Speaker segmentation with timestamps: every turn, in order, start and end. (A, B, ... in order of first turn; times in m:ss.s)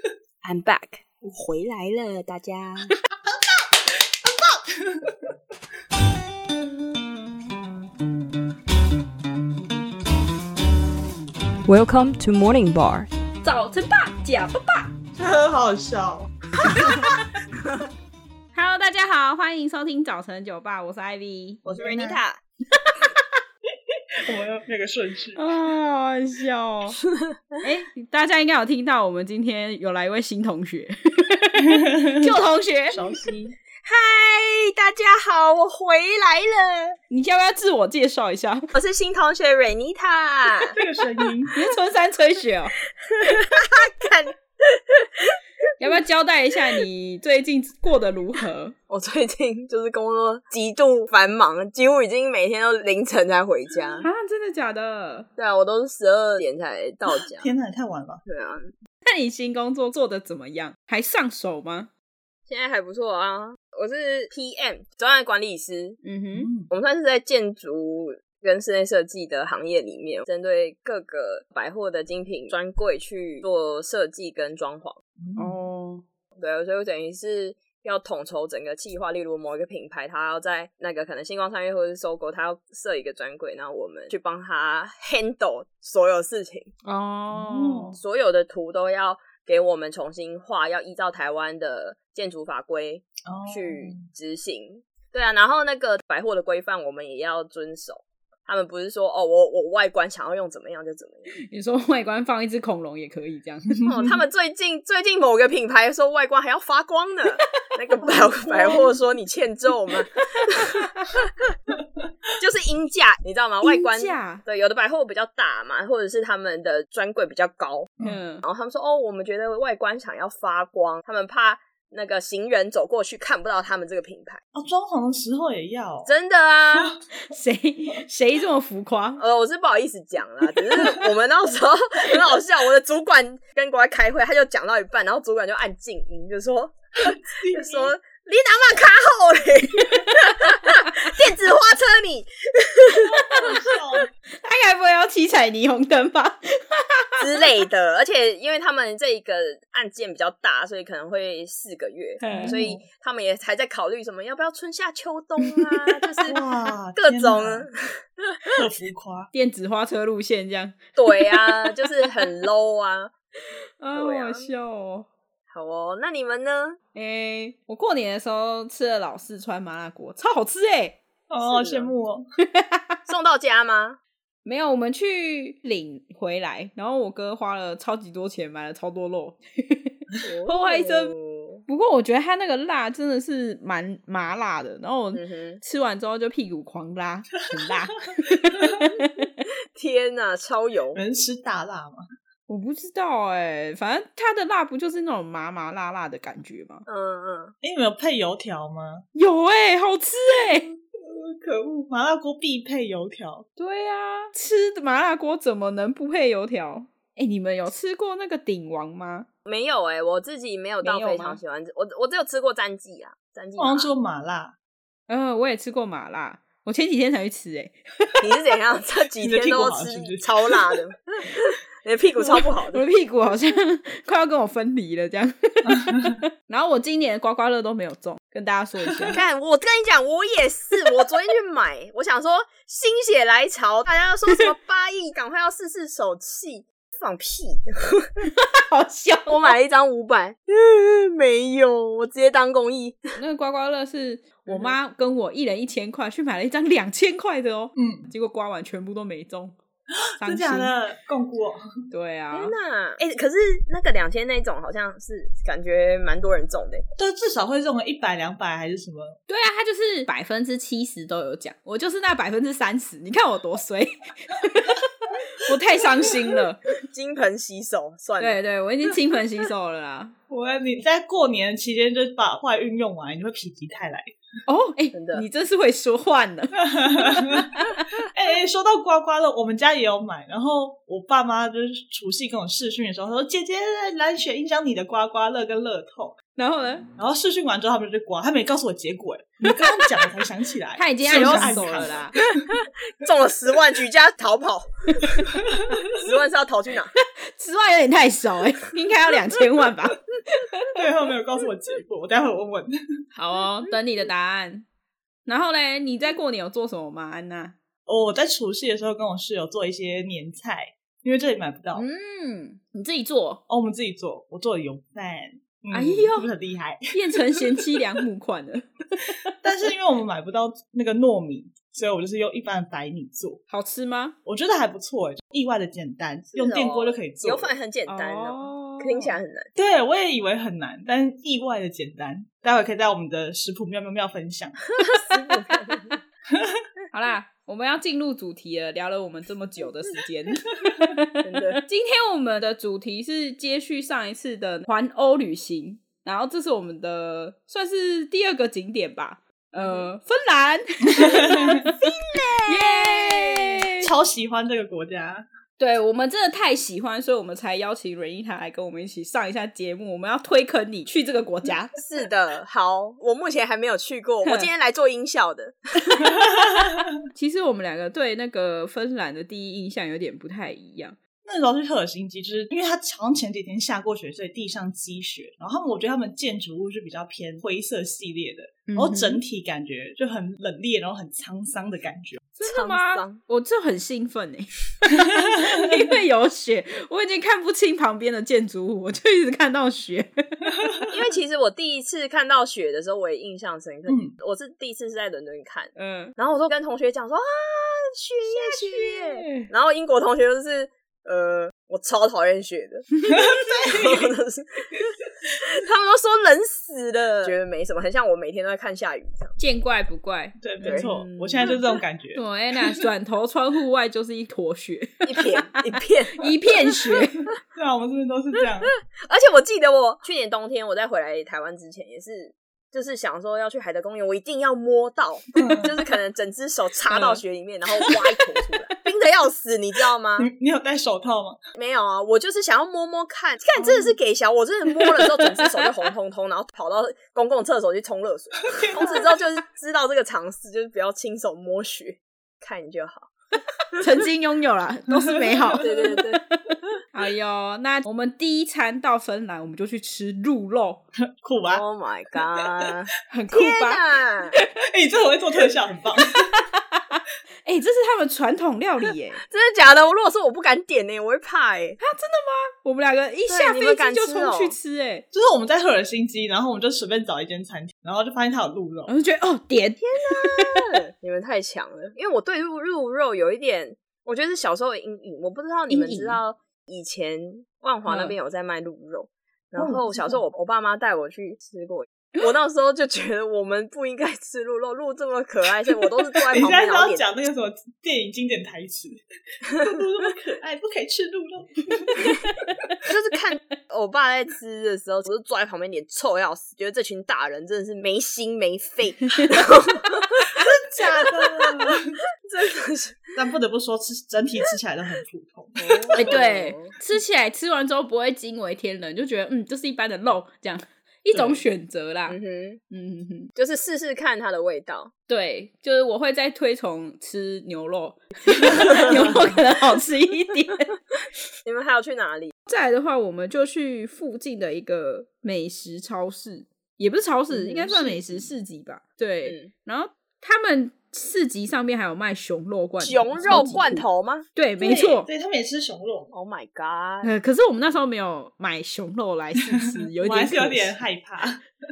0:00.4-0:02.9 A
0:04.2-0:05.2 B
0:11.7-0:13.1 A
0:13.4-0:14.9 C
0:15.2-0:17.1 B
0:18.5-0:21.6 C
0:21.6-0:22.2 B
0:21.8-0:22.4 A
0:22.7-0:23.3 C
0:24.2-0:25.4 B
0:25.4-0:27.0 C
0:27.1-0:27.6 A
0:27.6-0:33.0 C
0:31.6-0:32.3 B
0:32.9-0:33.5 B
0:33.8-0:37.0 A
0:37.1-0:38.7 C
0:38.7-0:40.7 A
0:40.7-0:41.6 B
0:41.5-0:42.7 C
0:43.0-0:45.4 A
0:45.8-0:48.8 C
0:48.9-0:54.1 A
0:54.0-0:55.3 C
0:55.4-0:57.5 A
0:57.1-0:58.2 B
0:58.2-0:58.7 A
0:59.0-1:01.9 C
1:02.5-1:06.0 A
1:06.0-1:06.5 C
1:06.3-1:06.7 B
1:06.7-1:15.0 A
1:15.2-1:15.5 B
1:15.4-1:16.0 C
1:16.4-1:26.7 A
1:26.8-1:28.0 C
1:27.3-1:28.0 B
1:28.0-1:41.4 A
1:33.2-1:34.0 B
1:41.4-1:43.8 C
1:43.7-1:44.2 B
1:43.9-1:50.9 A
1:48.0-1:48.9 C
1:50.5-1:51.0 C
1:52.4-2:04.4 A
1:53.6-1:54.4 C
1:58.0-1:58.4 C
2:04.5-2:06.1 B
2:06.0-2:06.9 A
2:07.3-2:09.2 C
2:09.2-2:23.5 A
2:17.1-2:17.9 B
2:23.0-2:23.6 C
2:23.1-2:24.1 B
2:24.4-2:27.5 C
2:27.2-2:36.4 A
2:32.2-2:32.8 C
2:32.2-2:32.8 B
2:35.4-2:35.7 C
2:36.2-2:37.7 B
2:37.0-2:38.5 A
2:38.4-2:39.3 B
2:39.3-2:42.3 C
2:41.0-2:43.1 A
2:43.8-2:45.1 C
2:43.9-2:44.5 A
2:45.5-2:46.8 A
2:46.9-2:51.0 C
2:51.3-2:52.2 B
2:51.4-2:51.9 A
2:52.5-2:53.0 C
2:53.1-2:54.0 A
2:54.4-3:01.1 C
3:00.2-3:01.6 A
3:01.7-3:09.3 C
3:05.1-3:05.6 A
3:09.7-3:11.0 A
3:10.9-3:12.0 B
3:12.5-3:16.8 C
3:16.9-3:17.5 A
3:17.6-3:19.0 B
3:19.1-3:20.7 C
3:21.0-3:23.4 B
3:23.6-3:29.3 C
3:29.4-3:33.9 A
3:30.8-3:31.4 C
3:33.6-3:34.5 B
3:35.1-3:38.2 C
3:38.2-3:42.8 A
3:39.2-3:40.7 B
3:42.2-3:49.2 C
3:45.6-3:46.2 B
3:48.8-3:49.1 B
3:49.1-3:58.3 A
3:58.2-3:59.6 C
3:59.3-4:03.2 A
4:03.2-4:09.5 C
4:07.8-4:08.1 B
4:10.0-4:11.6 B
4:10.2-4:10.7 C
4:11.9-4:12.5 C
4:12.3-4:16.8 A
4:17.0-4:19.2 B
4:19.3-4:26.6 C
4:26.9-4:28.4 A
4:28.2-4:30.1 C
4:30.3-4:34.1 B
4:34.5-4:37.5 C
4:34.9-4:35.2 A
4:36.6-4:46.2 B
4:46.3-4:46.9 C
4:47.0-4:52.5 B
4:50.8-4:52.2 C
4:51.1-4:51.6 A
4:52.5-4:57.0 A
4:55.4-4:55.8 B
4:57.0-5:00.7 C
5:00.7-5:02.8 B
5:03.1-5:04.6 C
5:05.2-5:07.6 C
5:07.9-5:11.8 B
5:11.7-5:13.4 C
5:13.5-5:17.8 B
5:15.7-5:16.3 C
5:16.9-5:19.3 C
5:19.4-5:23.4 B
5:23.5-5:24.1 C
5:24.2-5:27.5 B
5:26.3-5:29.5 A
5:27.9-5:29.1 C
5:29.6-5:34.6 B
5:34.8-5:35.9 A
5:35.1-5:36.0 C
5:36.3-5:36.6 B
5:36.9-5:53.9 C
5:41.2-5:41.6 A
5:49.6-5:49.8 A
5:50.9-5:51.7 B
5:51.7-5:53.6 A
5:53.8-5:55.2 B
5:55.6-6:01.7 C
6:01.8-6:06.1 A
6:04.2-6:04.5 C
6:06.0-6:06.9 B
6:07.1-6:11.0 C
6:11.2-6:22.2 B
6:18.7-6:19.2 C
6:22.4-6:30.4 C
6:22.4-6:23.2 A
6:25.4-6:25.6 B
6:30.5-6:30.9 B
6:30.9-6:43.0 A
6:33.9-6:34.2 B
6:35.8-6:36.1 C
6:38.2-6:39.5 C
6:43.1-6:44.1 B
6:43.7-6:44.7 A
6:45.4-6:49.4 A
6:49.4-6:51.6 C
6:50.4-6:52.2 B
6:50.6-6:51.5 A
6:52.2-6:57.2 C
6:55.0-6:57.0 A
6:57.6-6:58.7 B
6:59.0-7:10.3 A
7:05.4-7:05.7 B
7:06.9-7:07.2 C
7:10.2-7:11.4 B
7:11.6-7:23.1 A
7:13.6-7:13.9 C
7:14.7-7:15.7 C
7:18.5-7:19.0 B
7:23.8-7:30.8 C
7:24.9-7:25.7 B
7:25.6-7:26.2 A
7:31.2-7:31.6 B
7:31.5-7:34.4 A
7:33.1-7:34.5 C
7:34.7-7:36.3 B
7:36.1-7:39.2 C
7:39.3-7:41.8 A
7:41.8-7:45.0 C
7:43.3-7:44.6 A
7:45.1-7:48.9 B
7:48.9-7:50.8 C
7:49.8-8:07.0 A
7:55.7-7:56.2 C
7:57.9-7:58.1 C
7:59.6-8:00.2 B
8:06.2-8:09.0 B
8:09.6-8:12.2 B
8:12.8-8:20.3 A
8:20.3-8:22.0 B
8:22.2-8:23.1 A
8:23.1-8:26.2 B
8:25.6-8:26.7 A
8:25.9-8:32.2 C
8:31.1-8:31.4 B
8:32.1-8:32.6 A
8:32.7-8:33.3 C
8:33.4-8:34.9 A
8:35.1-8:40.7 C
8:38.6-8:39.2 A
8:38.6-8:39.3 B
8:41.4-8:42.3 A
8:42.5-8:53.8 C
8:47.3-8:48.3 A
8:49.2-8:49.5 A
8:52.8-8:55.0 A
8:54.4-8:55.1 C
8:55.0-8:56.1 B
8:56.1-8:57.1 A
8:57.0-9:00.8 C
8:59.5-9:01.4 B